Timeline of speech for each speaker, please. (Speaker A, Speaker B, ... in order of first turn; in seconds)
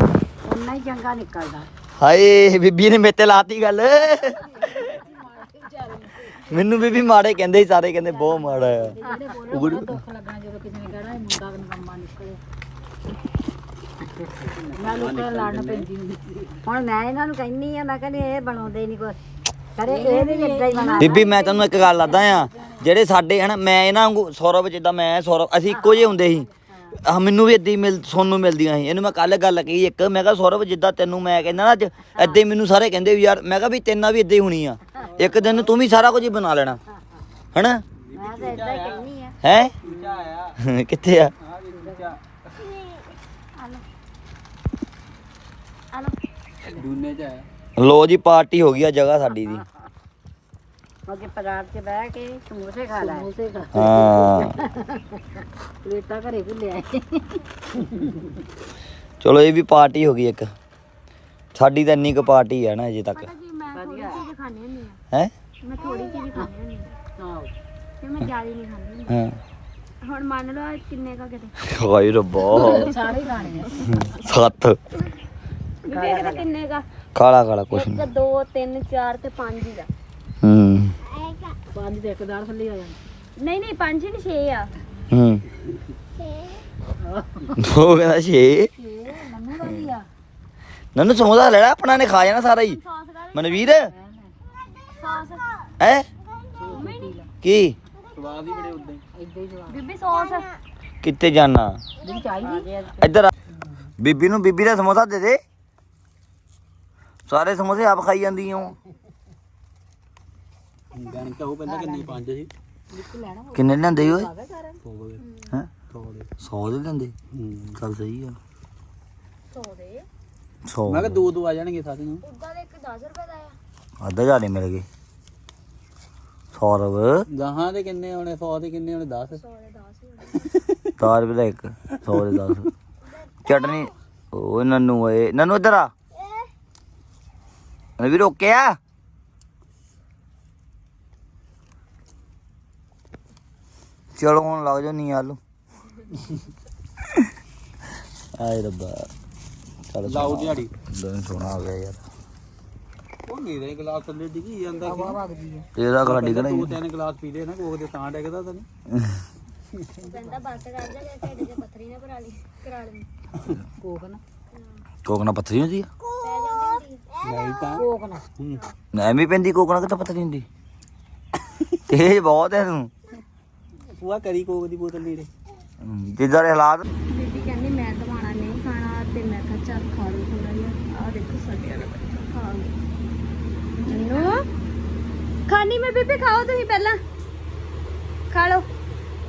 Speaker A: 0.4-1.7, 9.0-9.3, 16.6-19.2, 19.8-21.4, 26.7-27.0, 36.9-37.2, 38.1-39.4, 51.1-53.3, 54.2-55.2, 63.7-64.2, 75.9-76.5, 102.4-103.9
Speaker B: 2.0-4.9, 6.5-8.9, 9.5-9.9, 21.0-36.8, 37.5-37.8, 39.4-39.7, 40.6-41.3, 47.8-49.6, 53.7-54.5, 59.2-60.5, 61.5-63.3, 69.1-69.4, 71.6-72.9, 73.9-74.8, 77.1-78.0, 80.4-80.9, 85.1-85.4, 87.6-88.7, 90.9-92.8, 93.3-93.9, 95.8-96.1, 97.4-97.8, 101.0-101.8, 103.0-103.3, 104.0-105.4, 107.3-108.8, 113.5-114.3, 116.4-117.1, 117.8-118.4, 120.7-121.3, 124.0-124.8, 126.5-127.2, 131.0-132.7, 133.4-135.9, 138.0-138.8, 144.1-145.4, 147.0-147.3, 148.4-149.1, 149.9-152.0, 155.8-156.8, 158.9-159.2, 165.0-165.9, 168.9-170.4, 171.9-172.9, 175.8-176.8
Speaker C: 4.4-6.6, 8.1-12.4, 14.7-16.6, 19.8-22.9, 39.8-40.2, 41.7-42.1, 53.0-54.2, 55.8-57.4, 67.2-67.5, 72.5-74.2, 81.7-83.0, 87.0-87.7, 88.8-90.1, 93.8-94.3, 96.5-97.3, 99.1-99.8, 102.0-102.7, 111.7-112.2, 112.9-114.8, 154.8-155.7, 160.0-160.3, 163.8-164.2, 167.7-168.2, 183.8-184.3
Speaker D: 14.4-15.9, 35.1-35.8, 38.0-39.1, 39.8-40.6, 41.4-42.2, 46.7-47.4, 98.1-99.0, 110.9-112.5, 114.8-115.2, 115.9-116.3, 117.3-117.8, 120.9-122.2, 127.3-129.4, 130.5-130.9, 150.0-150.7, 153.2-155.2, 156.0-158.7, 167.2-167.9, 168.4-168.6, 171.4-171.8, 173.9-175.3
Speaker E: 63.1-65.0, 65.6-66.9, 68.0-69.2, 70.0-71.7, 72.5-73.1, 75.8-76.9, 77.7-79.9, 83.4-84.7, 92.1-93.8, 94.9-95.5, 96.7-97.1, 99.7-100.5, 115.2-115.5, 119.5-120.0, 122.2-123.5, 129.3-130.5, 133.0-133.9, 160.0-163.1, 164.5-164.8, 166.2-167.1, 177.1-182.7, 183.8-184.4, 185.5-187.0, 188.3-188.7